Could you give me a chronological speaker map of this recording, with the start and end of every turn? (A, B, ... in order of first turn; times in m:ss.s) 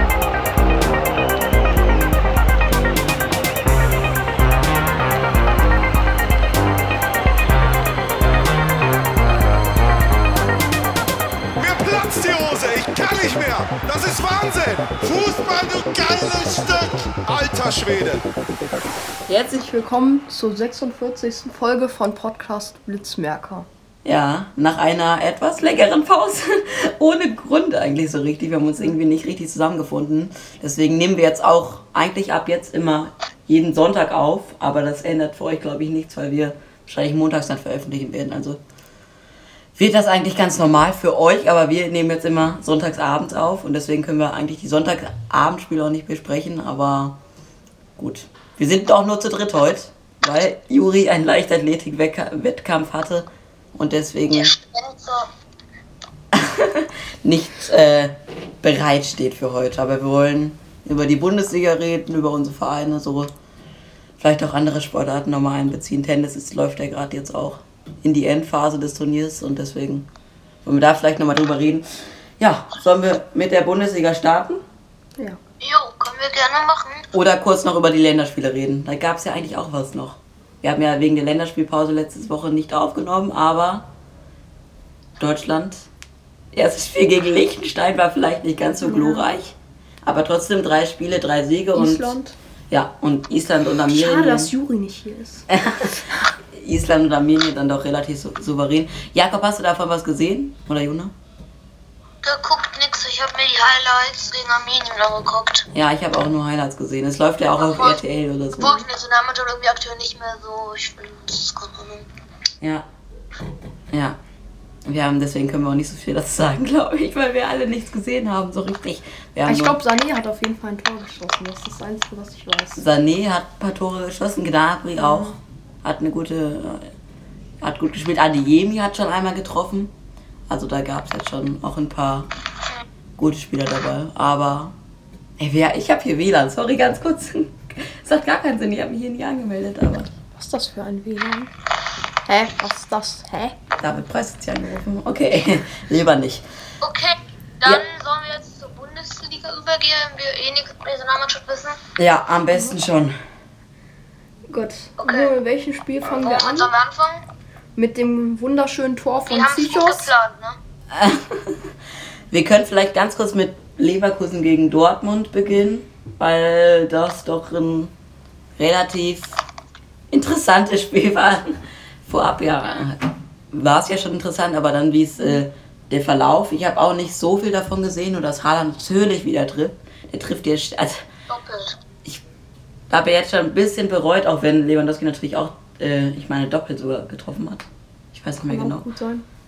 0:11.6-0:18.2 A
0:19.3-0:23.7 B
0:24.0-0:38.6 C
0:39.8-0:47.2 C
0:48.0-0:54.5 C
0:54.3-0:55.3 D
0:56.3-1:03.3 C
1:04.2-1:10.1 C
1:10.6-1:14.6 C
1:15.6-1:17.0 D
1:17.1-1:23.9 C
1:25.2-1:25.9 C
1:26.5-1:32.1 C
1:28.8-1:29.2 B
1:31.7-1:32.3 B
1:32.7-1:34.5 C
1:33.9-1:35.4 B
1:35.5-1:41.1 C
1:42.2-1:45.7 D
1:45.7-1:48.9 C
1:47.6-1:48.0 D
1:48.6-1:52.0 D
1:52.6-1:52.9 C
1:53.9-1:54.2 C
1:54.8-1:59.8 C
1:59.4-2:02.8 B
2:02.8-2:06.9 C
2:05.0-2:05.4 B
2:07.6-2:09.9 C
2:10.5-2:12.3 C
2:13.2-2:14.7 C
2:15.4-2:20.1 C
2:20.4-2:21.5 B
2:22.3-2:23.6 B
2:23.8-2:26.4 C
2:26.8-2:31.8 D
2:32.0-2:33.1 C
2:34.5-2:36.7 B
2:35.0-2:35.3 D
2:36.0-2:37.2 D
2:37.8-2:40.1 B
2:39.3-2:40.6 D
2:40.9-2:41.7 C
2:42.3-2:47.9 C
2:48.6-2:49.4 C
2:50.1-3:01.0 C
3:01.3-3:01.8 D
3:02.9-3:08.8 C
3:08.4-3:09.2 B